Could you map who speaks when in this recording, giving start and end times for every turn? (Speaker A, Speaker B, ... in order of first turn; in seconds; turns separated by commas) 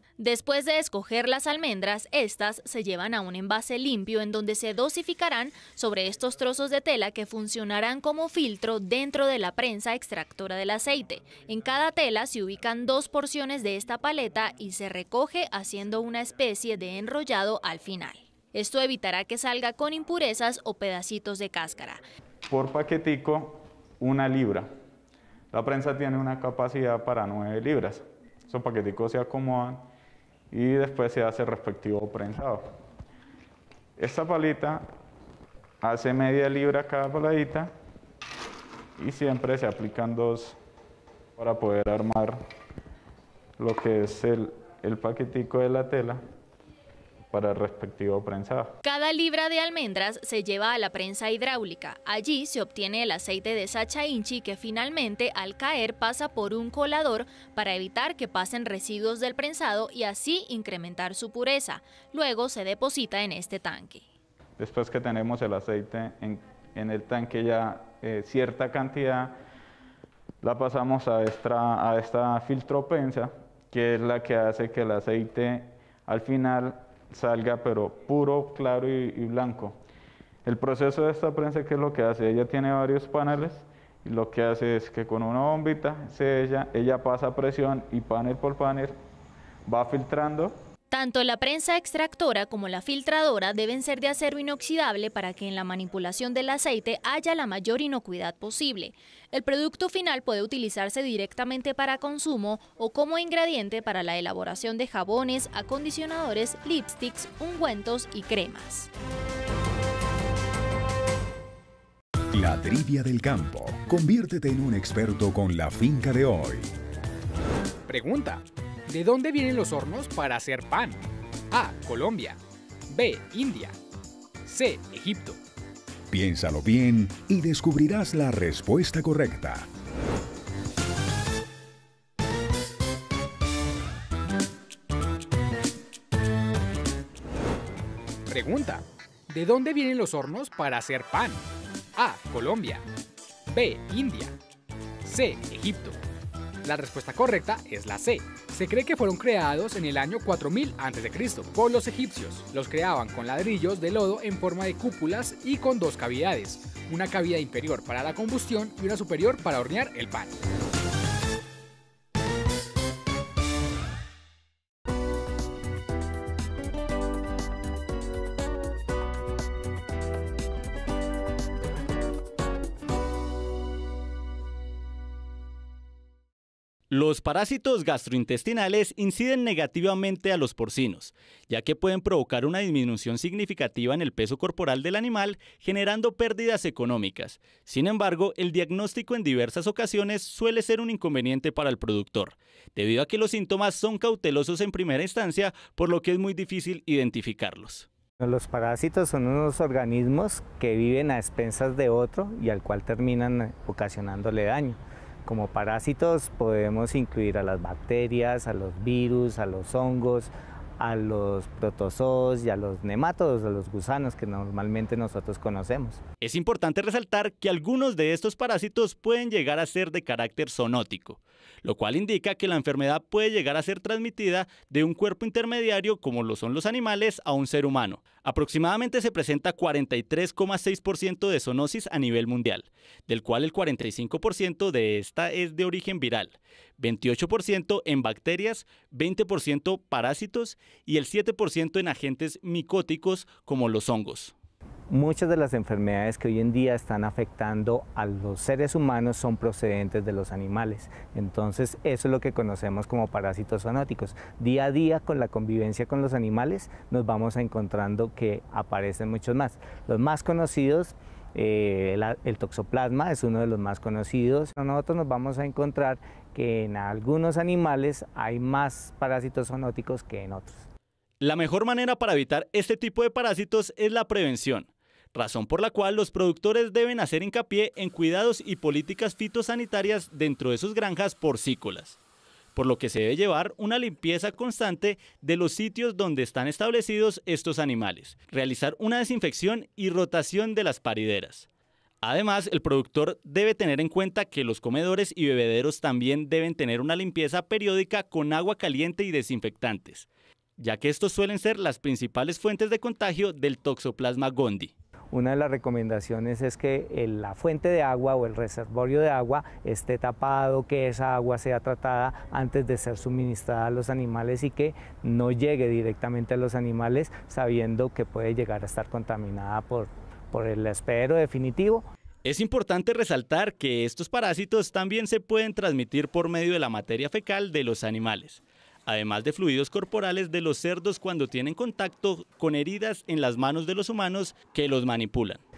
Speaker A: 0.2-22.0, Speaker B: 22.5-24.7, Speaker B: 25.5-29.9, Speaker B: 30.5-32.7, Speaker B: 34.0-34.9, Speaker B: 35.8-37.7, Speaker B: 39.0-40.6, Speaker B: 41.4-42.4, Speaker B: 43.6-46.2, Speaker B: 47.3-48.7, Speaker A: 48.8-64.0, Speaker B: 64.6-69.3, Speaker B: 70.4-79.8, Speaker B: 80.4-89.0, Speaker B: 89.7-90.5, Speaker A: 90.9-108.9, Speaker C: 112.3-116.7, Speaker D: 117.9-123.8, Speaker D: 124.4-125.4, Speaker C: 126.1-129.7, Speaker D: 138.3-142.8, Speaker D: 143.5-144.4, Speaker D: 145.0-146.0, Speaker D: 146.6-160.3, Speaker E: 176.9-197.9, Speaker F: 198.2-216.0, Speaker E: 216.2-244.3, Speaker F: 244.9-270.7, Speaker E: 271.2-282.0, Speaker E: 282.6-291.5, Speaker E: 292.0-304.7, Speaker F: 305.1-321.9, Speaker E: 322.2-335.4